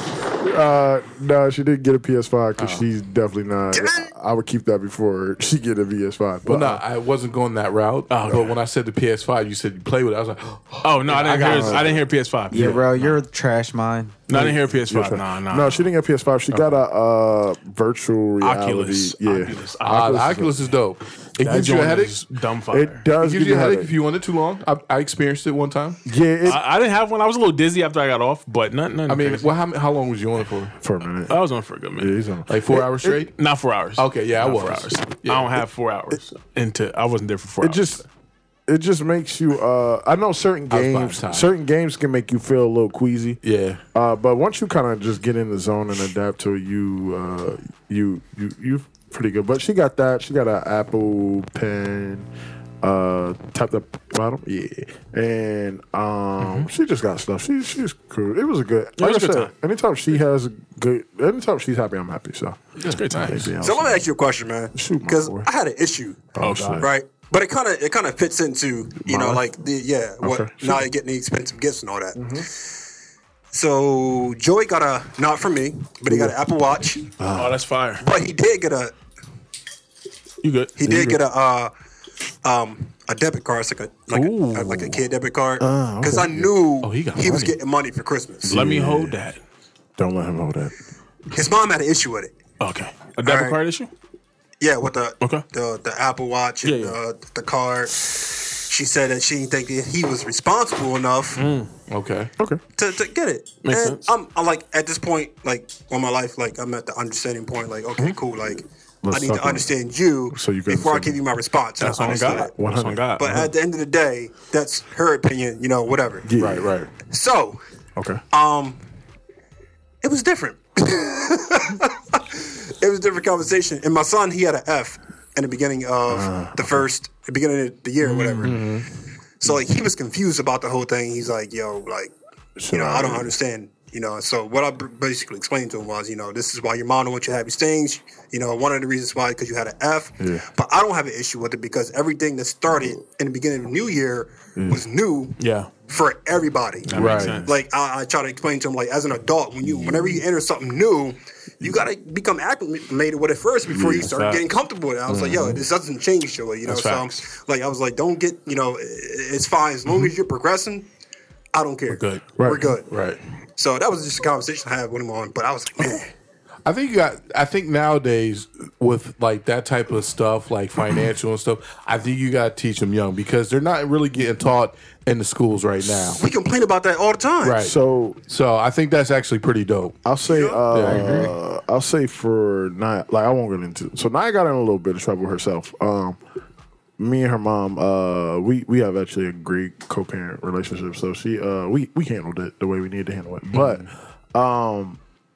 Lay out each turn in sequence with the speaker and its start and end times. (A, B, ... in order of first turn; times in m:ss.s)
0:00.4-0:06.8 A
0:03.7-0:04.1 B
0:06.4-0:12.0 C
0:08.1-0:08.5 D
0:10.8-0:13.2 D
0:11.4-0:11.9 A
0:12.5-0:14.2 E
0:12.5-0:12.8 C
0:14.3-0:15.9 D
0:14.3-0:20.6 A
0:18.4-0:20.5 D
0:19.8-0:22.2 C
0:21.4-0:23.1 D
0:22.7-0:23.9 A
0:23.2-0:26.0 C
0:26.1-0:26.6 A
0:26.4-0:29.5 D
0:29.1-0:30.8 C
0:30.8-0:31.4 A
0:31.3-0:32.2 D
0:32.0-0:33.2 A
0:32.5-0:33.4 C
0:33.4-0:38.0 D
0:34.0-0:35.5 C
0:37.6-0:38.0 A
0:38.7-0:43.4 A
0:40.7-0:41.5 C
0:43.4-0:43.8 C
0:43.9-0:52.3 A
0:52.8-1:02.6 A
0:56.4-0:56.7 D
0:59.0-0:59.5 D
1:02.8-1:03.5 C
1:02.9-1:03.5 D
1:03.1-1:04.1 A
1:03.6-1:06.3 B
1:04.8-1:05.5 A
1:06.3-1:06.9 A
1:06.4-1:06.9 D
1:06.8-1:12.2 B
1:09.0-1:09.4 A
1:10.2-1:10.9 A
1:12.2-1:12.5 A
1:13.5-1:17.1 B
1:16.1-1:16.4 A
1:17.2-1:17.6 A
1:17.4-1:18.1 D
1:18.0-1:18.9 B
1:20.4-1:21.2 D
1:20.8-1:21.7 B
1:22.4-1:28.6 B
1:24.1-1:25.0 D
1:25.6-1:26.5 A
1:26.8-1:27.6 C
1:28.4-1:29.2 A
1:28.5-1:29.4 D
1:30.0-1:30.7 A
1:31.3-1:32.3 B
1:32.6-1:33.9 D
1:33.2-1:33.6 B
1:34.6-1:41.5 B
1:36.6-1:37.0 D
1:41.4-1:41.7 D
1:41.9-1:42.3 C
1:42.8-1:52.5 B
1:43.6-1:44.0 D
1:49.0-1:49.7 A
1:50.3-1:51.2 A
1:51.8-1:53.3 D
1:52.0-1:53.5 A
1:53.2-1:56.3 B
1:56.2-1:56.7 A
1:56.4-1:56.9 C
1:57.0-1:57.6 B
1:58.0-1:58.2 A
1:58.3-1:58.8 B
2:00.0-2:08.6 B
2:06.1-2:06.9 A
2:08.0-2:08.5 D
2:08.4-2:08.9 C
2:09.4-2:12.1 B
2:12.6-2:13.4 A
2:12.7-2:26.9 B
2:20.2-2:20.5 A
2:24.6-2:24.8 A
2:25.4-2:25.7 D
2:26.9-2:27.5 D
2:26.9-2:27.6 A
2:26.9-2:27.4 C
2:27.4-2:40.9 B
2:33.7-2:34.1 A
2:34.0-2:34.5 D
2:35.1-2:35.6 C
2:36.6-2:37.2 D
2:41.5-2:42.9 B
2:41.9-2:42.3 D
2:42.4-2:42.8 A
2:42.9-2:43.2 C
2:43.6-2:46.1 B
2:46.6-2:56.2 C
2:56.0-2:57.7 B
2:57.4-2:57.8 C
2:57.6-2:58.2 A
2:58.3-3:00.0 C
3:00.0-3:06.2 A
3:00.3-3:00.6 B
3:00.7-3:01.3 C
3:00.8-3:01.3 E
3:07.0-3:15.0 A
3:13.5-3:13.9 C